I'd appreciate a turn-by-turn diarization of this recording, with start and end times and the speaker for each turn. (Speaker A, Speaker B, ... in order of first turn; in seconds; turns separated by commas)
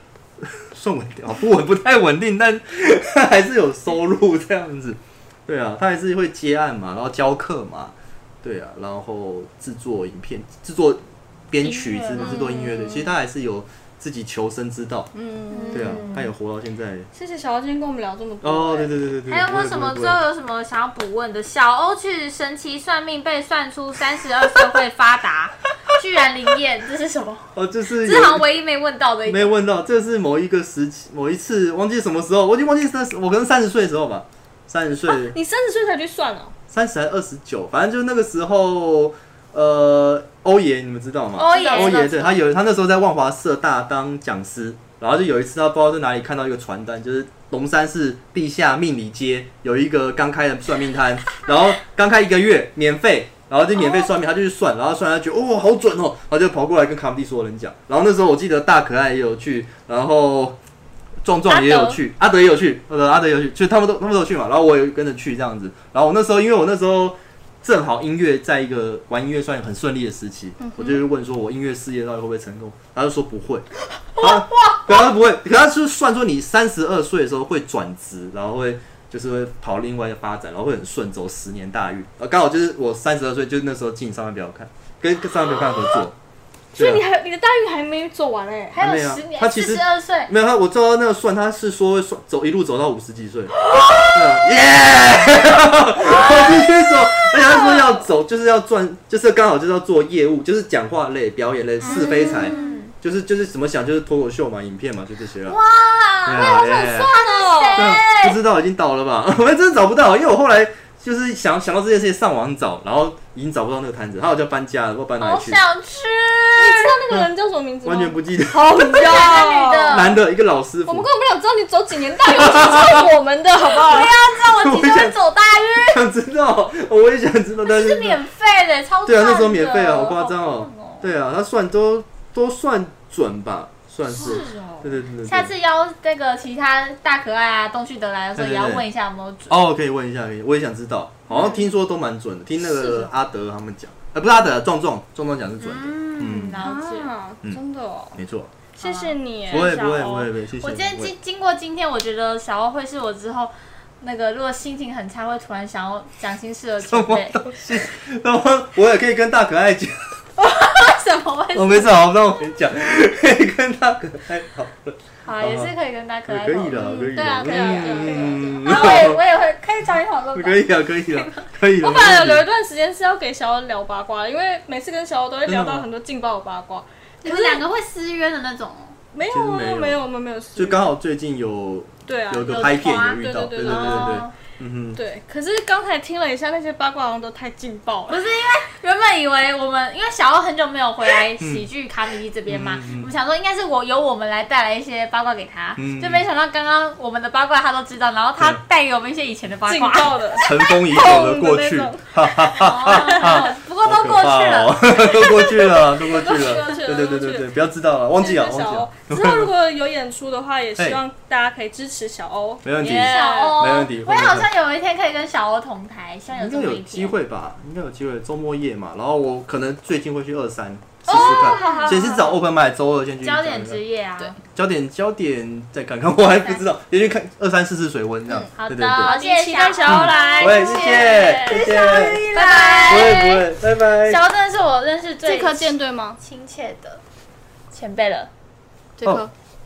Speaker A: 0.4-15.1, Speaker B: 11.6-12.6, Speaker C: 12.2-13.1, Speaker C: 15.1-16.1, Speaker B: 15.5-16.3, Speaker A: 15.7-17.1, Speaker C: 17.1-18.9, Speaker A: 18.4-20.2, Speaker B: 19.2-29.6, Speaker A: 27.5-28.5, Speaker A: 29.3-35.4, Speaker C: 35.1-36.5, Speaker A: 36.7-60.6, Speaker B: 41.4-42.4, Speaker C: 41.6-42.0, Speaker A: 61.2-86.2, Speaker C: 61.5-62.0, Speaker C: 70.6-71.0, Speaker C: 86.7-88.8, Speaker A: 86.8-87.0, Speaker B: 88.7-90.3, Speaker A: 88.8-105.6, Speaker C: 93.8-94.1, Speaker B: 96.0-96.4, Speaker C: 97.3-98.0, Speaker B: 101.8-102.9, Speaker C: 101.9-102.8, Speaker B: 105.5-108.4, Speaker A: 106.3-107.1, Speaker C: 106.7-107.9, Speaker A: 107.8-115.6, Speaker B: 115.2-117.0, Speaker C: 116.6-120.2, Speaker A: 117.8-119.3, Speaker B: 118.9-120.2, Speaker A: 119.9-121.1, Speaker C: 120.9-124.2, Speaker A: 122.3-123.0, Speaker B: 123.7-126.0, Speaker A: 124.4-125.2, Speaker A: 125.8-128.2, Speaker B: 127.6-131.1, Speaker A: 129.1-135.5, Speaker C: 134.1-134.8, Speaker B: 134.2-139.6, Speaker A: 138.4-138.8, Speaker A: 139.5-146.6, Speaker B: 141.3-141.6, Speaker B: 145.6-147.1, Speaker C: 146.6-148.2, Speaker A: 148.2-148.5, Speaker B: 148.8-157.6, Speaker C: 148.8-150.2, Speaker A: 149.5-151.1, Speaker A: 156.8-160.2, Speaker B: 160.4-162.0, Speaker A: 161.5-165.7, Speaker B: 165.2-171.4, Speaker A: 166.3-169.2, Speaker C: 166.9-168.7, Speaker A: 170.3-172.4, Speaker C: 171.8-177.6, Speaker A: 175.5-175.9, Speaker B: 177.2-179.0, Speaker C: 179.1-180.9, Speaker A: 179.3-180.0, Speaker A: 180.6-185.0, Speaker C: 182.1-184.2, Speaker B: 182.5-184.3, Speaker C: 185.0-188.2, Speaker B: 188.1-200.5, Speaker A: 191.4-191.7, Speaker A: 192.5-193.1, Speaker A: 195.8-196.2, Speaker C: 199.7-202.1, Speaker A: 200.4-209.5, Speaker B: 202.5-206.8, Speaker C: 202.9-203.4, Speaker C: 206.0-207.6, Speaker C: 208.2-213.8, Speaker A: 210.8-211.0, Speaker A: 212.7-214.5, Speaker B: 212.8-217.2, Speaker A: 216.3-223.8, Speaker B: 221.1-222.3, Speaker C: 221.1-222.3, Speaker B: 223.2-224.4, Speaker A: 224.5-229.1, Speaker C: 228.3-233.3, Speaker B: 228.6-233.4, Speaker A: 229.8-232.3, Speaker A: 232.9-234.2, Speaker B: 234.0-237.0, Speaker C: 235.2-236.2, Speaker B: 237.7-238.3, Speaker C: 239.0-239.3, Speaker A: 239.0-239.3